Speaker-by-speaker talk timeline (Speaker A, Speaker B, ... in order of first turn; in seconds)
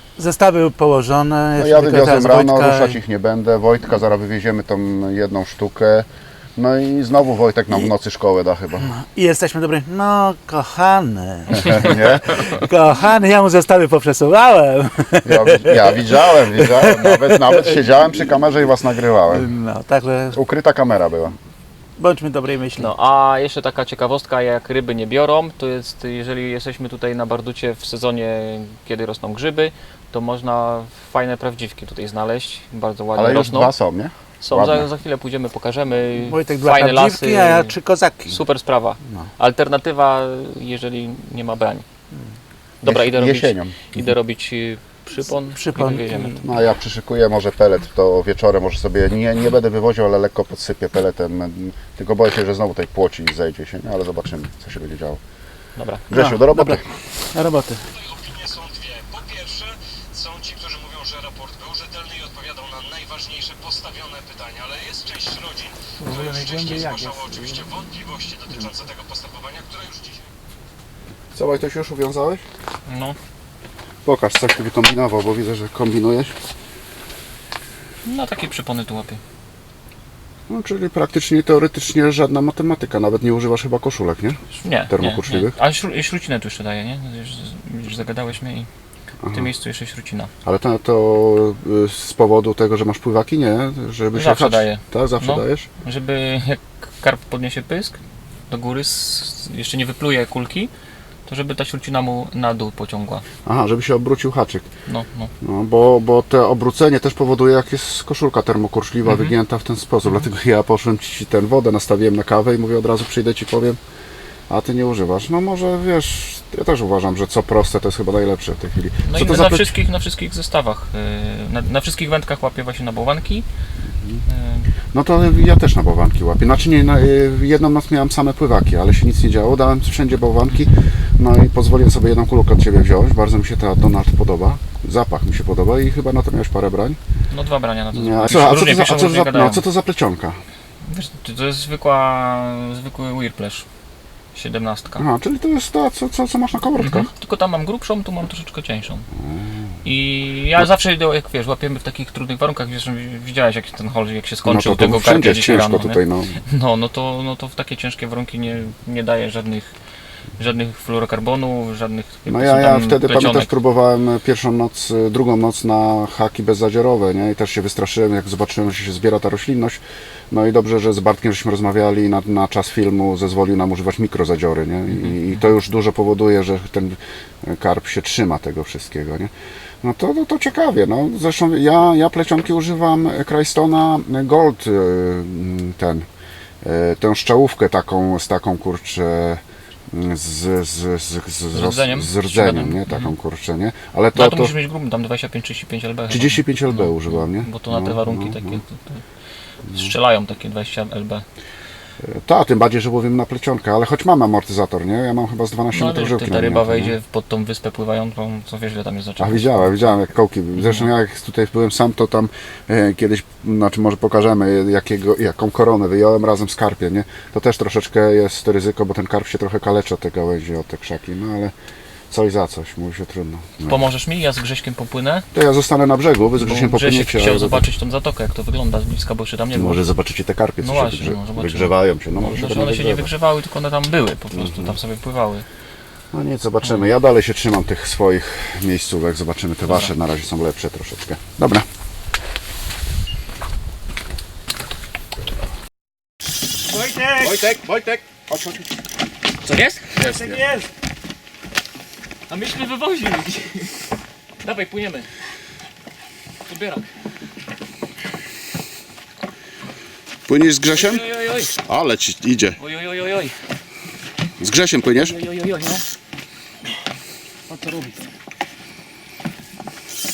Speaker A: 0.2-3.0, 8.8-17.8, 19.3-20.4, 22.0-22.9, 36.2-38.4, 45.5-46.4, 56.1-57.9, 66.0-67.7, 246.7-247.4, 250.2-250.6
Speaker B: 1.6-8.9, 11.5-12.5, 15.2-19.5, 20.3-21.4, 33.2-34.9, 42.8-43.8, 46.4-55.2, 56.1-56.9, 71.3-72.4, 74.0-76.3, 80.5-84.4, 84.9-85.6, 89.2-89.5, 90.4-95.7, 103.5-104.7, 105.4-113.8, 114.5-119.7, 124.0-124.2, 124.9-137.0, 137.9-140.4, 145.0-147.1, 149.2-149.7, 154.5-156.4, 162.3-186.1, 186.6-194.5, 196.1-198.6, 202.0-206.9, 209.2-221.5, 222.1-223.9, 225.3-227.7, 229.5-233.1, 234.4-234.8, 236.1-241.7, 260.3-262.6, 264.4-265.2
Speaker C: 22.8-33.7, 34.4-37.8, 38.3-41.9, 42.8-46.5, 55.8-56.1, 72.9-73.2, 78.0-79.2, 84.5-88.7, 89.3-90.3, 94.1-98.0, 98.5-100.7, 101.3-103.2, 104.9-105.3, 109.0-109.3, 119.0-123.5, 124.3-124.7, 137.3-139.6, 140.8-143.7, 144.3-145.1, 146.8-149.1, 149.8-159.7, 160.4-163.5, 174.9-175.4, 191.5-193.1, 194.2-199.0, 199.7-201.2, 205.7-209.9, 210.6-210.9, 223.7-225.3, 226.4-229.8, 230.6-235.4, 239.7-239.9, 249.4-250.5, 252.3-253.8, 254.4-255.1, 256.5-256.9, 260.7-261.6, 262.6-263.4, 265.0-265.8, 267.5-268.0
Speaker D: 58.1-70.1